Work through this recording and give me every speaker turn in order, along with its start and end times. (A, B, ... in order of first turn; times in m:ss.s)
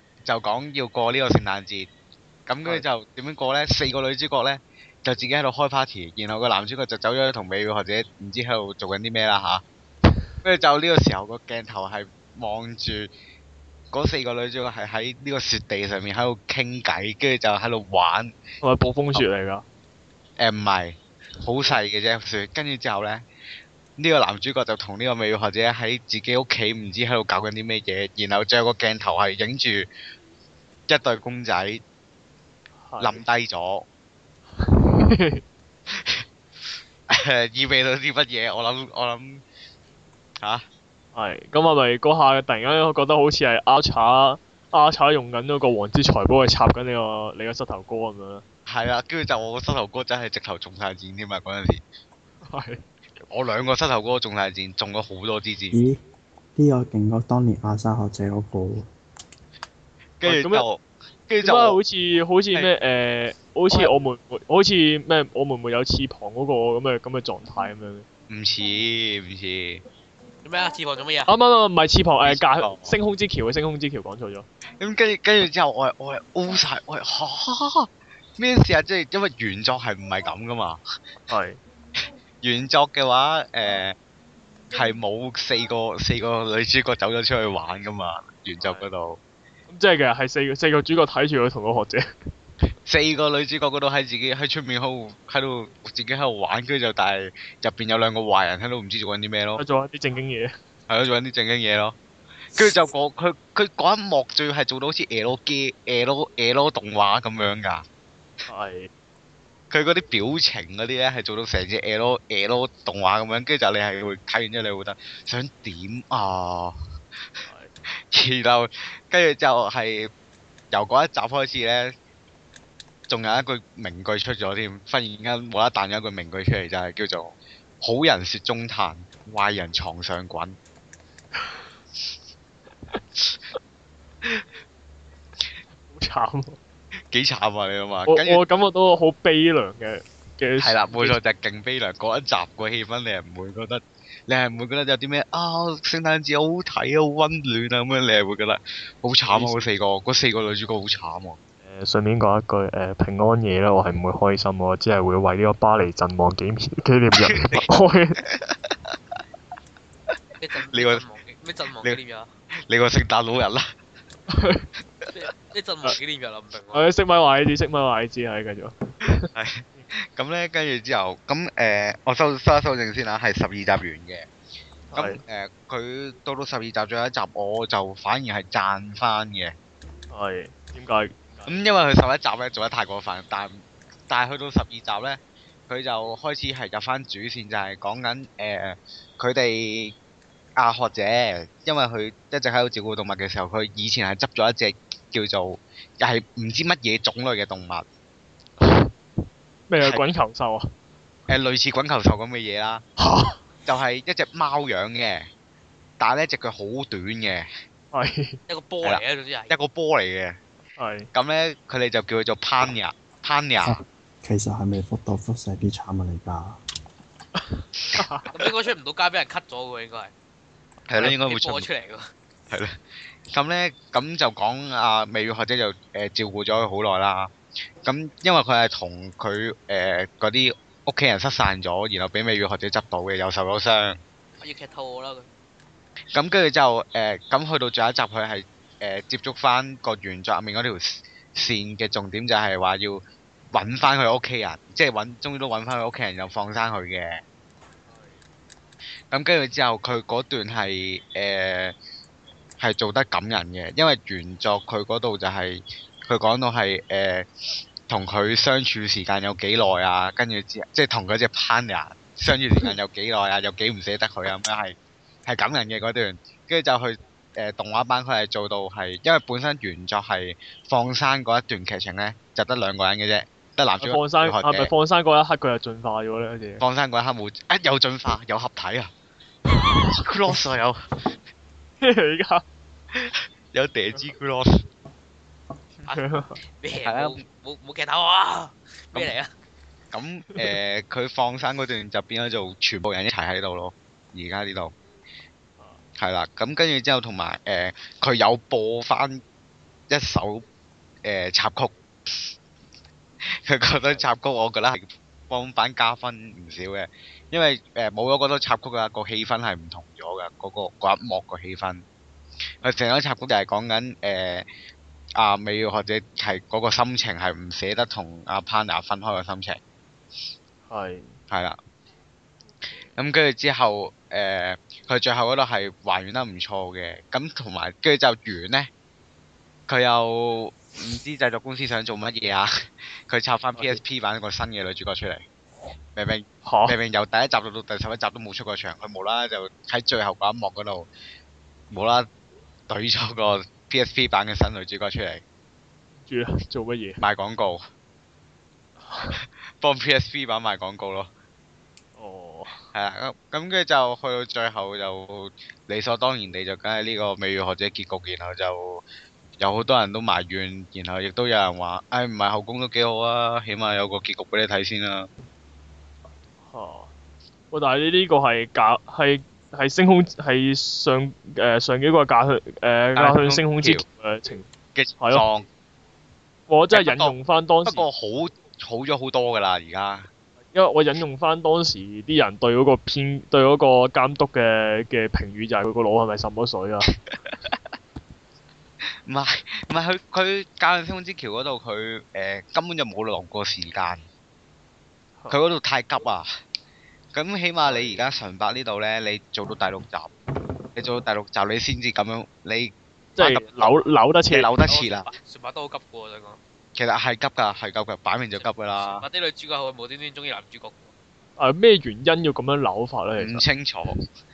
0:00.2-0:01.9 A
0:02.5-0:09.6 A
0:10.4-0:13.1 A
0:13.9-0:18.3 A
0:18.6-0:19.6 B
0:20.4-0:23.2 A
0:24.0-0:29.9 A
0:30.9-0:31.8 A
0:32.8-0:33.2 B
0:33.0-0:33.9 A
0:34.6-0:35.4 B
0:35.9-0:36.2 A
0:37.1-0:39.4 A
0:41.1-0:48.4 B
0:48.7-0:51.8 A
0:52.4-0:52.8 B
0:53.3-0:55.8 A
0:55.7-0:56.0 C
0:56.6-0:58.9 C
1:00.2-1:01.8 A
1:00.2-1:00.6 B
1:01.4-1:08.1 B
1:08.3-1:09.8 A
1:10.4-1:11.3 D
1:11.3-1:14.5 B
1:12.3-1:13.0 A
1:14.8-1:20.8 A
1:21.3-1:21.6 B
1:22.4-1:24.0 A
1:24.7-1:29.2 A
1:28.6-1:28.9 D
1:29.7-1:32.1 B
1:32.9-1:39.6 A
1:39.6-1:40.5 B
1:40.9-1:42.0 A
1:42.6-1:47.8 A
1:48.5-1:48.9 B
1:49.7-1:56.8 A
1:57.5-1:57.7 B
1:58.1-2:00.1 A
2:00.7-2:02.0 A
2:03.1-2:10.6 A
2:11.4-2:11.6 B
2:15.8-2:16.6 B
2:17.1-2:18.4 A
2:18.1-2:21.2 B
2:20.6-2:31.4 A
2:29.3-2:29.7 B
2:31.6-2:38.2 B
2:37.2-2:37.6 A
2:38.2-2:38.9 A
2:40.4-2:42.3 D
2:40.7-2:41.0 A
2:42.7-2:43.7 A
2:44.3-2:44.7 B
2:45.1-2:46.8 D
2:46.7-2:49.9 B
2:49.3-2:54.3 A
2:54.9-2:55.2 B
2:55.0-2:59.6 A
3:00.1-3:01.7 B
3:01.5-3:10.0 A
3:10.6-3:17.8 A
3:18.6-3:18.9 B
3:19.7-3:20.7 B
3:21.3-3:22.8 A
3:23.0-3:23.4 B
3:23.7-3:25.3 A
3:26.0-3:27.5 A
3:27.9-3:28.4 B
3:28.5-3:29.5 D
3:28.8-3:30.4 A
3:30.8-3:31.1 B
3:31.1-3:33.8 A
3:33.6-3:36.6 C
3:37.4-3:38.3 B
3:37.8-3:38.4 A
3:38.3-3:40.1 D
3:40.9-3:41.7 A
3:41.0-3:42.1 D
3:42.5-3:42.8 A
3:43.3-3:47.3 A
3:47.8-3:54.0 A
3:54.4-3:55.3 D
3:56.1-4:07.2 A
4:07.9-4:08.2 B
4:09.1-4:11.8 A
4:12.6-4:17.3 A
4:17.9-4:34.7 A
4:33.8-4:36.6 B
4:36.6-4:38.9 A
4:39.8-4:41.0 A
4:41.8-4:42.4 B
4:42.9-4:44.6 A
4:45.8-4:46.4 B
4:46.6-4:49.3 D
4:46.8-4:47.2 A
4:49.9-4:54.7 A
4:56.0-4:59.2 A
4:59.9-5:00.5 A
5:01.0-5:02.3 A
5:03.4-5:11.8 A
5:03.8-5:04.1 B
5:12.6-5:14.5 A
5:15.2-5:19.6 A
5:20.7-5:21.2 B
5:21.3-5:21.6 A
5:23.0-5:28.7 A
5:29.7-5:35.2 A
5:33.6-5:33.8 B
5:36.0-5:40.9 A
5:36.4-5:36.8 B
5:41.7-5:42.1 A
5:42.7-5:45.2 A
5:46.0-5:47.0 B
5:47.0-5:47.7 A
5:48.8-5:49.2 B
5:49.1-5:51.1 A
5:52.0-5:52.7 B
5:52.7-5:58.8 A
5:59.4-6:05.1 A
6:06.5-6:06.9 B
6:07.5-6:14.5 B
6:13.0-6:13.8 A
6:14.8-6:15.5 A
6:15.0-6:15.3 B
6:16.5-6:17.8 B
6:16.7-6:17.1 A
6:17.6-6:20.1 A
6:20.5-6:26.9 B
6:27.1-6:27.6 A
6:29.0-6:34.0 A
6:35.3-6:36.3 A
6:37.1-6:40.1 A
6:37.6-6:38.0 B
6:40.8-6:43.7 A
6:43.2-6:44.6 B
6:44.3-6:45.1 A
6:44.6-6:46.4 D
6:46.8-6:49.0 A
6:48.4-6:50.9 D
6:51.4-6:53.4 B
6:53.2-6:54.0 A